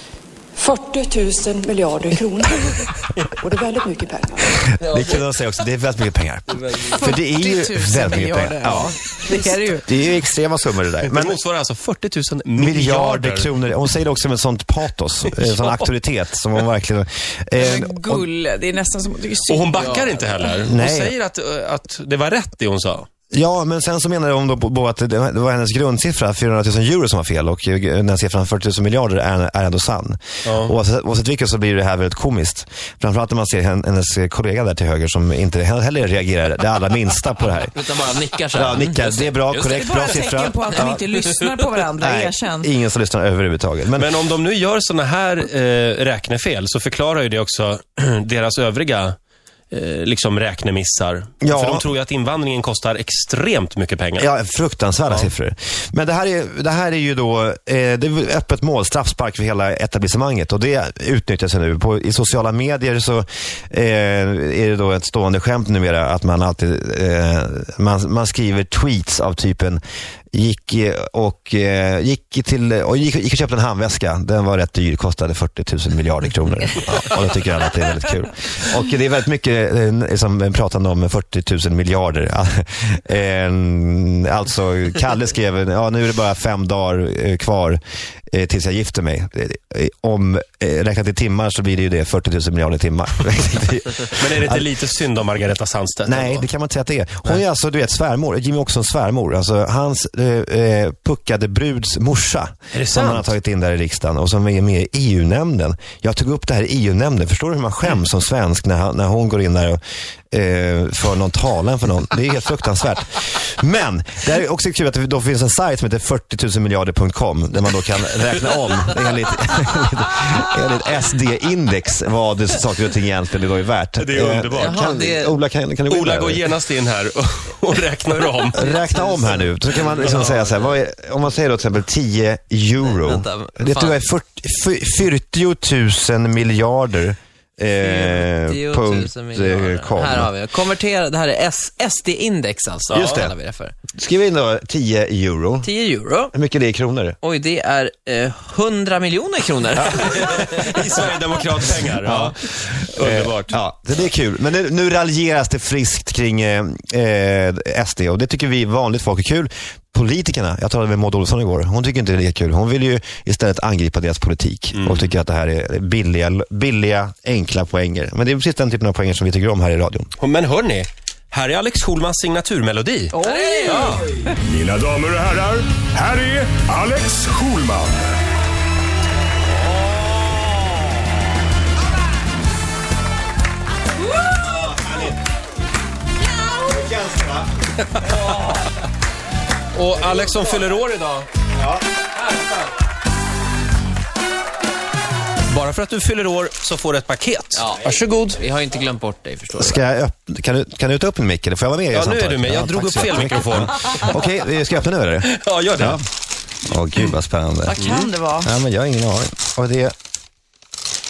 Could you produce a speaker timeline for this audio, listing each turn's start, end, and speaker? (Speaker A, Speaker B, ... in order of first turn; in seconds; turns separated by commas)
Speaker A: 0.6-4.6, Speaker B: 4.7-9.0, Speaker C: 4.8-5.2, Speaker C: 6.5-7.0, Speaker D: 7.0-9.9, Speaker B: 9.9-11.4, Speaker E: 11.1-13.5, Speaker B: 12.6-18.3, Speaker E: 15.2-15.8, Speaker D: 17.6-19.8, Speaker E: 19.5-23.1, Speaker C: 19.7-20.3, Speaker B: 20.7-21.1, Speaker B: 23.3-37.7, Speaker E: 30.4-30.7, Speaker C: 37.4-39.8, Speaker B: 38.5-41.1, Speaker D: 39.7-42.7, Speaker B: 42.0-44.1, Speaker E: 44.0-49.1, Speaker E: 49.7-54.3, Speaker B: 51.4-51.8, Speaker B: 54.2-69.8, Speaker B: 70.3-87.8, Speaker B: 88.3-94.7, Speaker E: 94.2-96.4, Speaker B: 96.0-109.8, Speaker E: 102.7-103.3, Speaker B: 110.3-126.4, Speaker E: 124.0-124.8, Speaker C: 124.5-125.4, Speaker E: 125.9-128.6, Speaker C: 128.5-130.4, Speaker B: 128.5-140.3, Speaker C: 132.8-134.0, Speaker C: 137.8-143.7, Speaker B: 142.9-143.3, Speaker B: 144.0-145.7, Speaker C: 145.6-146.3, Speaker B: 146.3-147.2, Speaker C: 147.2-150.4, Speaker E: 149.9-153.6, Speaker B: 152.0-152.4, Speaker B: 153.0-170.1, Speaker E: 164.7-165.1, Speaker E: 170.2-173.1, Speaker C: 173.1-174.1, Speaker D: 173.1-174.3, Speaker E: 173.7-174.0, Speaker F: 174.4-178.1, Speaker B: 184.4-185.2, Speaker B: 186.3-187.5, Speaker E: 189.7-191.3, Speaker B: 191.5-191.8, Speaker E: 195.5-198.4, Speaker C: 197.6-199.8, Speaker B: 199.6-206.0, Speaker E: 201.9-204.1, Speaker E: 205.2-206.0, Speaker B: 206.6-209.9, Speaker D: 207.7-208.5